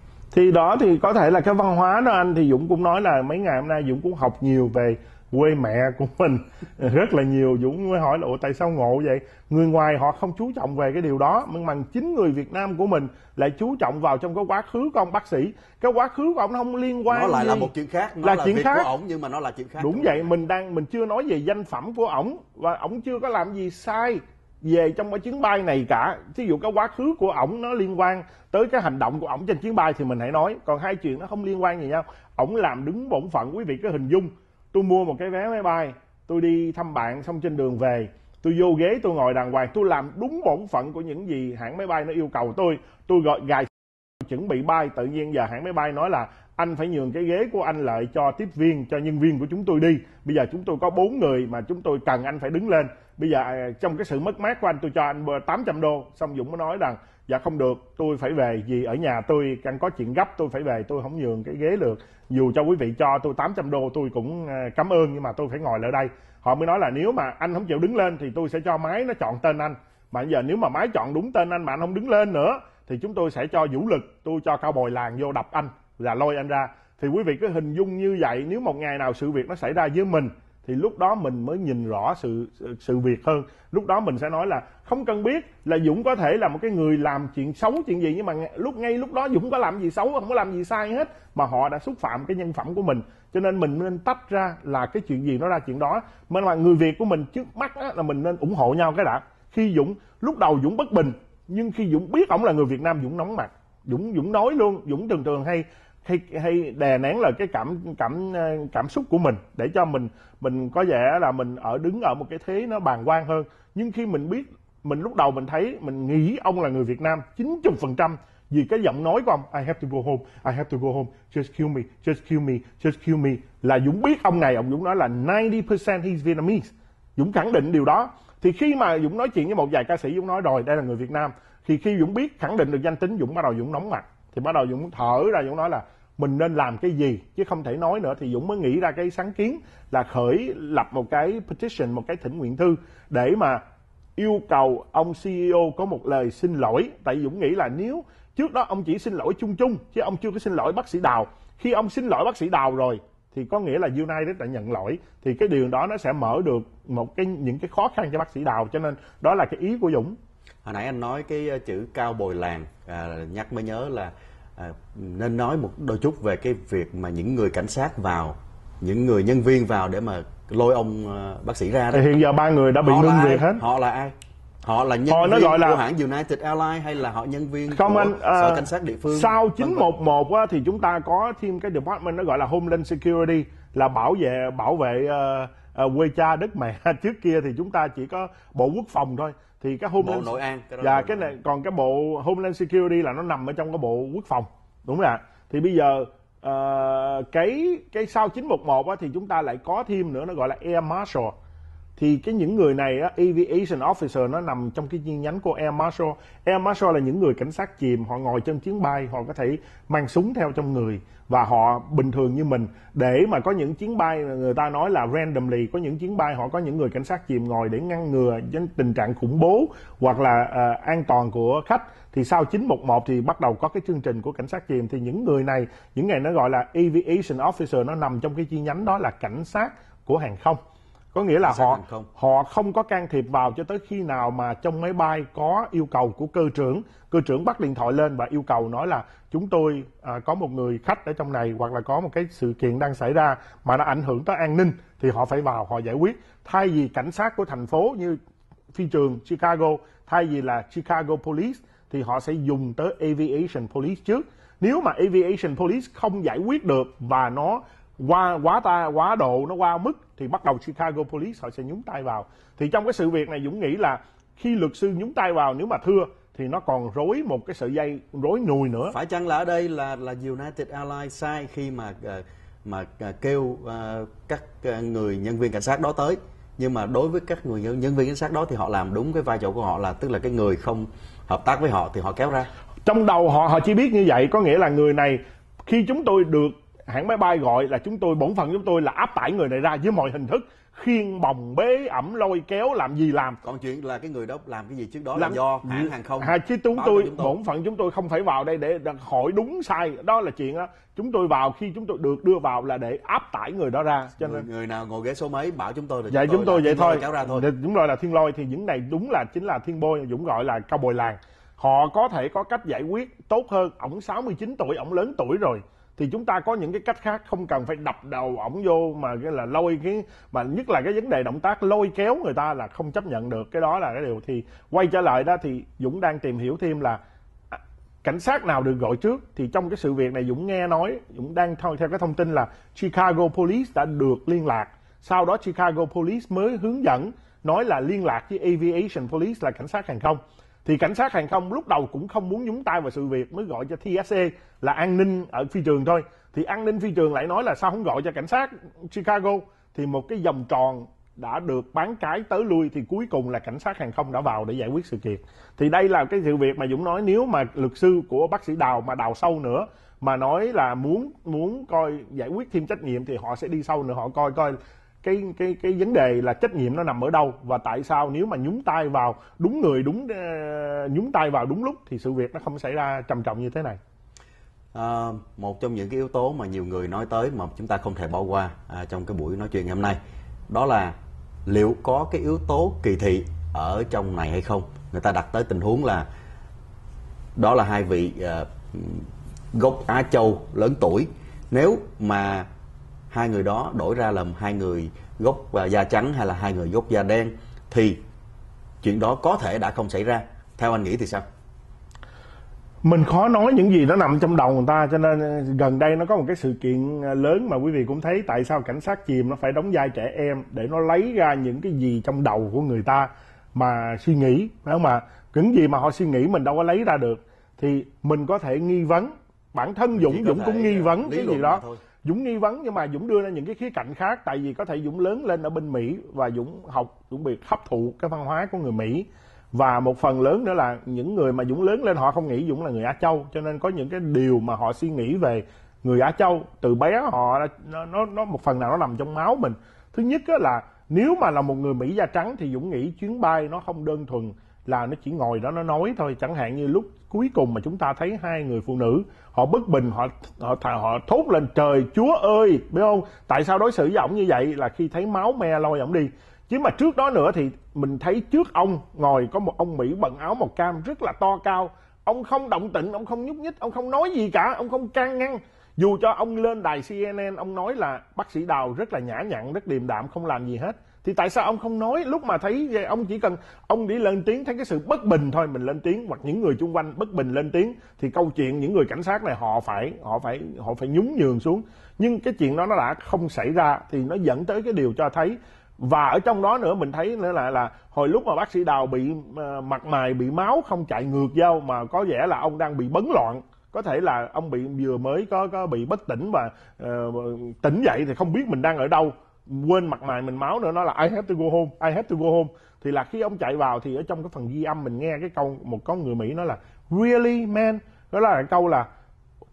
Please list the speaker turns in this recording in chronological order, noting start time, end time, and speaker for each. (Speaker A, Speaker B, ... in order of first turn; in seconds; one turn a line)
Speaker A: 0.3-17.7
Speaker B: 17.1-20.3
Speaker A: 18.2-18.9
Speaker A: 19.8-143.6
Speaker A: 144.2-160.2
Speaker B: 160.6-172.1
Speaker A: 171.9-173.6
Speaker B: 172.8-179.9
Speaker A: 175.1-175.8
Speaker A: 177.7-201.3
Speaker B: 190.0-191.3
Speaker A: 202.0-230.6
Speaker A: 231.1-248.2
Speaker B: 231.4-232.1
Speaker A: 248.7-268.9
Speaker B: 268.9-282.5
Speaker A: 282.8-293.4
Speaker B: 293.4-297.3
Speaker A: 295.1-304.4
Speaker B: 304.2-307.4
Speaker A: 306.1-327.0
Speaker A: 327.5-373.8
Speaker B: 374.7-386.1
Speaker B: 387.4-392.5
Speaker B: 393.1-398.0
Speaker B: 398.8-401.2
Speaker A: 402.8-508.9
Speaker B: 419.9-421.8